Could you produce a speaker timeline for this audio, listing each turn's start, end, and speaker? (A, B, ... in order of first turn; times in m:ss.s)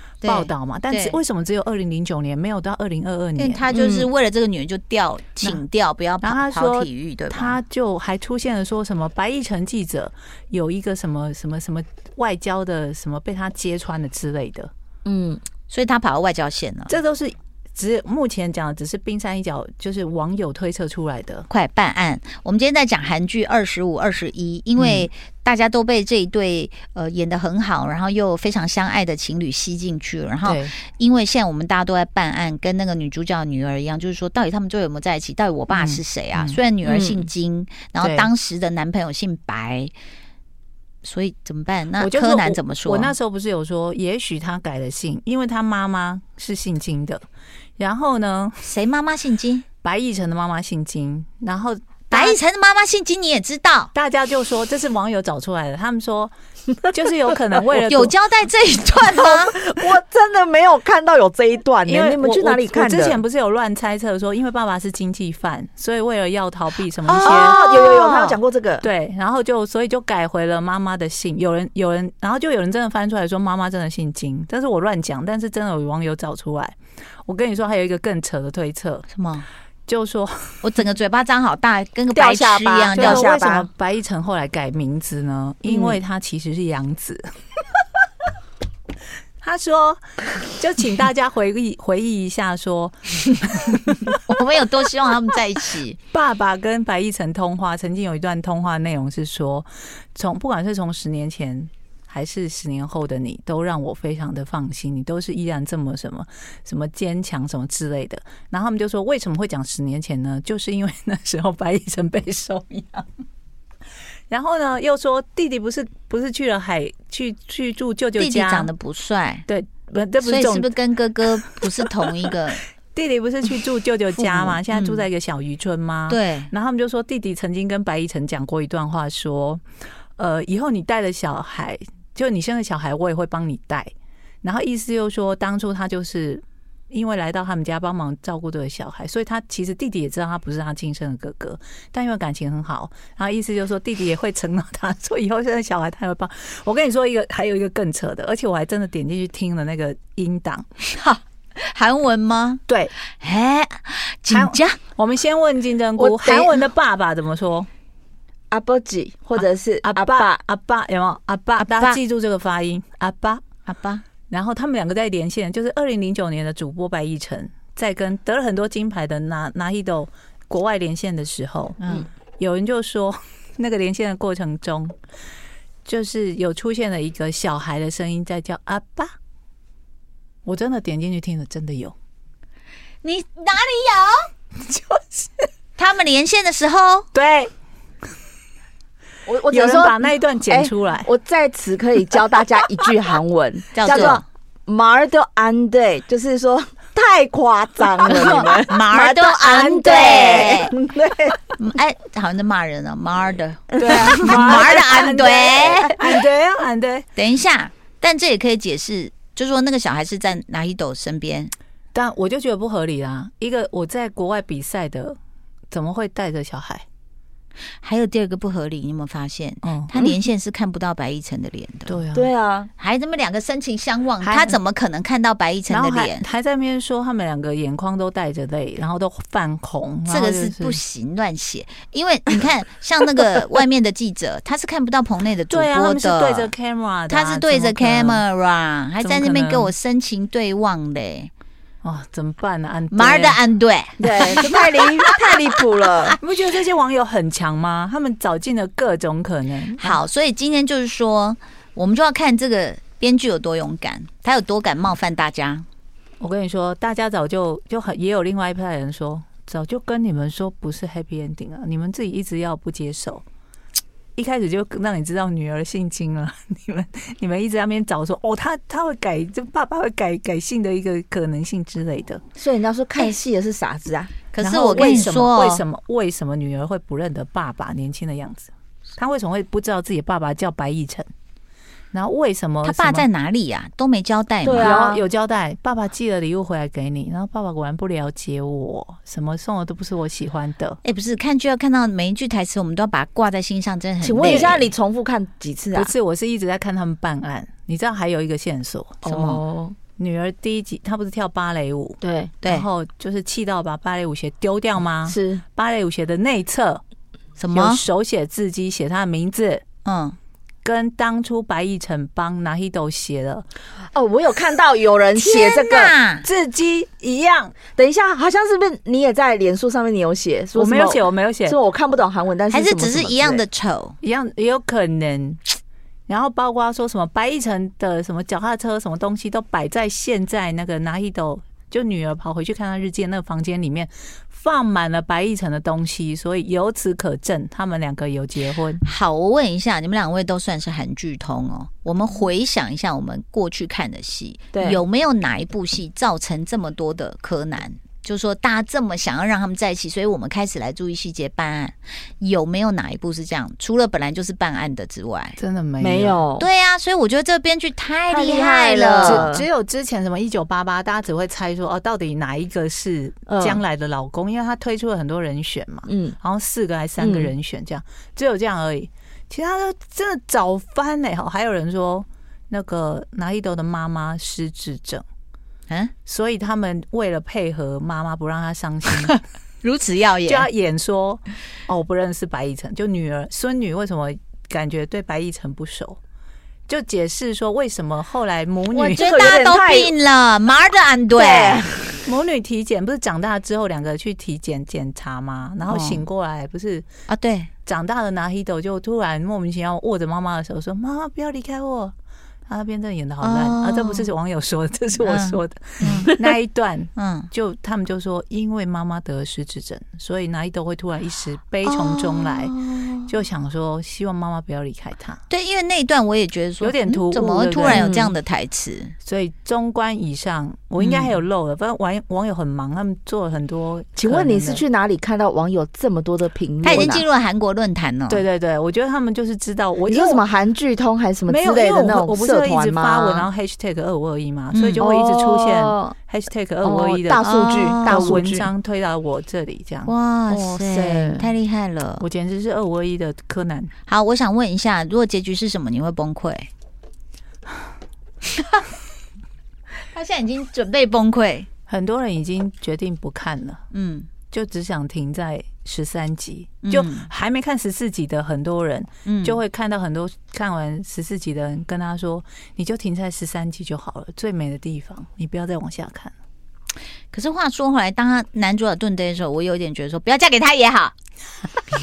0:00.2-0:01.2 A
0:00.2-0:03.6 B
0:03.4-0:07.6 A
0:03.7-0:04.1 C
0:06.2-0:14.7 B
0:15.0-0:15.4 C
0:15.7-0:17.0 A
0:16.9-0:21.5 B
0:21.5-0:39.9 A
0:24.8-0:25.1 B
0:30.4-0:30.7 B
0:35.7-0:36.6 B
0:36.8-0:37.3 C
0:38.0-0:38.3 B
0:41.0-0:43.1 A
0:42.0-0:47.2 B
0:47.8-0:48.7 B
0:48.6-0:49.6 A
0:49.8-0:52.4 B
0:52.1-0:53.9 A
0:53.9-0:56.3 B
0:56.8-0:58.2 B
0:57.7-0:59.5 A
0:59.0-1:03.2 C
1:01.9-1:08.3 B
1:07.0-1:08.1 A
1:07.2-1:08.9 C
1:08.8-1:19.1 B
1:19.1-1:19.4 A
1:19.9-1:20.6 B
1:20.6-1:23.3 A
1:22.1-1:23.7 C
1:22.9-1:27.2 B
1:29.4-1:34.2 B
1:34.3-1:36.0 A
1:36.1-1:53.1 B
1:54.3-1:58.7 B
1:58.2-1:59.5 A
1:59.5-2:00.7 B
2:00.2-2:02.6 A
2:01.3-2:01.9 B
2:02.9-2:09.6 B
2:04.1-2:05.0 A
2:06.1-2:06.5 A
2:10.2-2:13.9 B
2:14.4-2:30.6 B
2:30.9-2:34.8 A
2:34.3-2:37.7 B
2:36.0-2:36.6 C
2:38.5-2:40.4 C
2:39.4-2:43.4 B
2:41.6-2:42.0 A
2:43.6-2:44.0 A
2:44.3-2:51.8 B
2:51.8-2:52.1 A
2:52.4-2:54.9 B
2:55.8-2:59.1 B
3:00.4-3:01.9 B
3:03.0-3:04.3 A
3:04.7-3:05.2 B
3:05.8-3:07.1 A
3:07.1-3:07.5 B
3:09.2-3:21.4 C
3:09.5-3:11.1 B
3:13.7-3:14.2 A
3:18.1-3:18.5 B
3:18.7-3:20.7 A
3:21.6-3:26.0 A
3:23.8-3:27.0 B
3:23.8-3:26.3 C
3:27.2-3:31.5 A
3:31.9-3:35.2 B
3:35.7-3:36.8 B
3:37.8-3:42.0 A
3:39.6-3:39.9 B
3:41.9-3:42.3 B
3:42.1-3:42.7 C
3:42.8-3:46.2 A
3:44.2-3:44.6 B
3:45.7-3:50.8 B
3:50.1-3:56.5 A
3:55.5-3:58.2 B
3:57.1-4:01.3 A
3:59.0-3:59.7 B
4:01.8-4:03.4 B
4:02.9-4:05.1 A
4:04.0-4:06.2 C
4:06.2-4:10.0 B
4:09.8-4:15.6 A
4:16.2-4:23.2 B
4:24.2-4:32.2 B
4:32.4-4:34.1 C
4:34.3-4:35.6 A
4:34.4-4:41.1 B
4:41.9-4:43.1 B
4:42.6-4:44.8 A
4:44.4-4:45.0 C
4:44.6-4:50.8 B
4:50.8-4:54.7 A
4:54.0-4:55.9 C
4:54.2-4:54.5 B
4:55.7-4:59.0 B
4:59.0-4:59.8 C
4:59.1-4:59.4 A
5:00.0-5:06.8 B
5:02.0-5:02.3 C
5:02.4-5:02.7 A
5:05.0-5:05.4 C
5:07.4-5:07.8 A
5:07.5-5:09.6 B
5:09.8-5:10.2 A
5:10.6-5:13.4 B
5:13.9-5:15.9 C
5:15.2-5:16.3 A
5:16.2-5:17.5 B
5:17.7-5:23.4 C
5:20.5-5:21.6 B
5:22.5-5:24.0 A
5:24.0-5:25.4 B
5:26.1-5:38.8 B
5:38.8-5:55.4 A
5:44.5-5:44.8 C
5:55.4-5:56.2 B
5:55.8-5:56.4 C
5:56.4-5:59.3 A
5:58.1-5:59.5 C
5:59.0-6:15.0 B
6:03.3-6:03.6 C
6:05.9-6:06.2 C
6:07.0-6:07.3 C
6:15.7-6:15.9 A
6:16.0-6:19.1 B
6:19.0-6:20.5 A
6:20.2-6:26.0 B
6:26.7-6:29.3 B
6:28.8-6:31.6 A
6:28.9-6:29.9 C
6:31.1-6:32.0 C
6:32.0-6:36.8 B
6:35.7-6:36.0 A
6:37.1-6:37.5 A
6:37.6-6:41.9 B
6:42.5-6:55.2 B
6:43.2-6:44.1 A
6:45.0-6:46.1 A
6:47.0-6:47.3 A
6:51.6-6:53.0 A
6:55.3-6:58.9 A
6:56.6-6:58.1 B
6:57.7-6:58.0 C
6:59.0-7:04.6 B
7:00.8-7:01.1 A
7:04.0-7:07.0 C
7:06.6-7:08.2 A
7:08.1-7:10.2 B
7:09.8-7:13.3 C
7:11.3-7:17.3 B
7:14.5-7:14.9 A
7:14.8-7:15.9 C
7:16.6-7:18.5 C
7:17.2-7:18.2 A
7:17.9-7:19.9 B
7:19.8-7:22.0 A
7:20.3-7:21.3 C
7:22.0-7:23.7 B
7:23.9-7:26.5 A
7:29.9-7:31.5 A
7:31.7-7:33.6 B
7:33.7-7:34.1 A
7:34.3-7:46.1 B
7:36.6-7:37.1 A
7:39.0-7:39.4 A
7:47.1-7:50.9 A